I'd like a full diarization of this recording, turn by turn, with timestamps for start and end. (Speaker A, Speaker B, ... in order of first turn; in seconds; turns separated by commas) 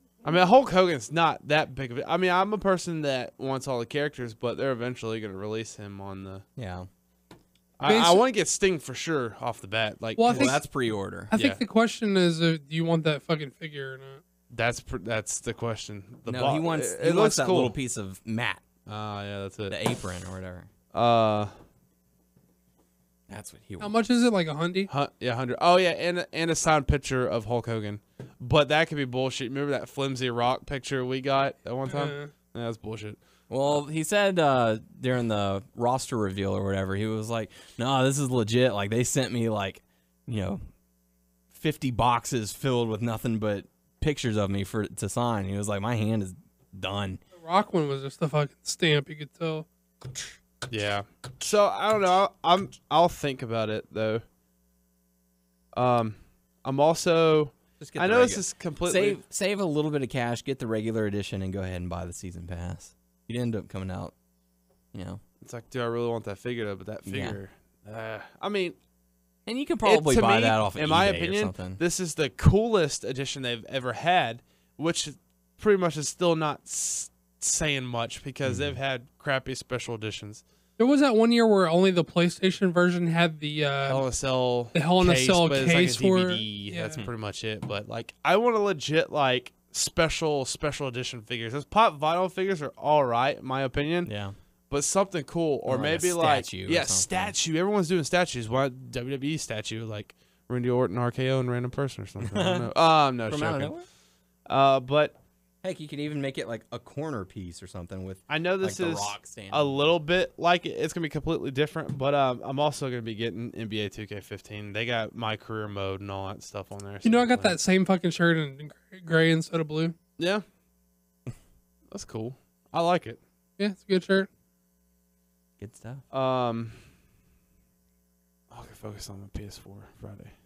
Speaker A: 0.2-6.5, Speaker B: 6.6-6.9, Speaker A: 7.8-10.6, Speaker C: 7.8-8.2, Speaker C: 10.2-10.6, Speaker B: 10.3-11.3, Speaker C: 11.3-14.2, Speaker A: 11.3-11.6, Speaker A: 14.5-17.7, Speaker B: 16.3-18.6, Speaker A: 18.9-19.8, Speaker B: 19.7-20.7, Speaker A: 20.9-21.5, Speaker B: 23.3-24.0, Speaker C: 23.8-24.9, Speaker A: 24.9-33.2, Speaker C: 31.9-32.3, Speaker B: 33.5-40.6, Speaker B: 41.5-47.2, Speaker C: 47.4-49.7, Speaker A: 50.7-54.2, Speaker A: 55.7-59.2, Speaker B: 57.8-64.1, Speaker B: 64.9-65.2, Speaker A: 65.4-68.8, Speaker B: 67.1-67.4, Speaker B: 69.5-71.8, Speaker A: 69.8-80.4, Speaker B: 78.5-78.8, Speaker C: 80.8-84.0, Speaker A: 83.9-94.1, Speaker C: 84.7-87.0, Speaker B: 94.0-94.3, Speaker A: 94.7-103.8, Speaker B: 95.7-97.3, Speaker B: 102.2-102.7, Speaker B: 103.3-103.9, Speaker A: 104.5-105.2, Speaker B: 105.6-109.9, Speaker A: 108.3-117.6, Speaker C: 117.0-120.0, Speaker A: 120.2-120.5, Speaker A: 121.9-123.2, Speaker C: 123.6-124.3, Speaker B: 125.6-126.0, Speaker A: 126.1-126.8, Speaker A: 128.5-130.3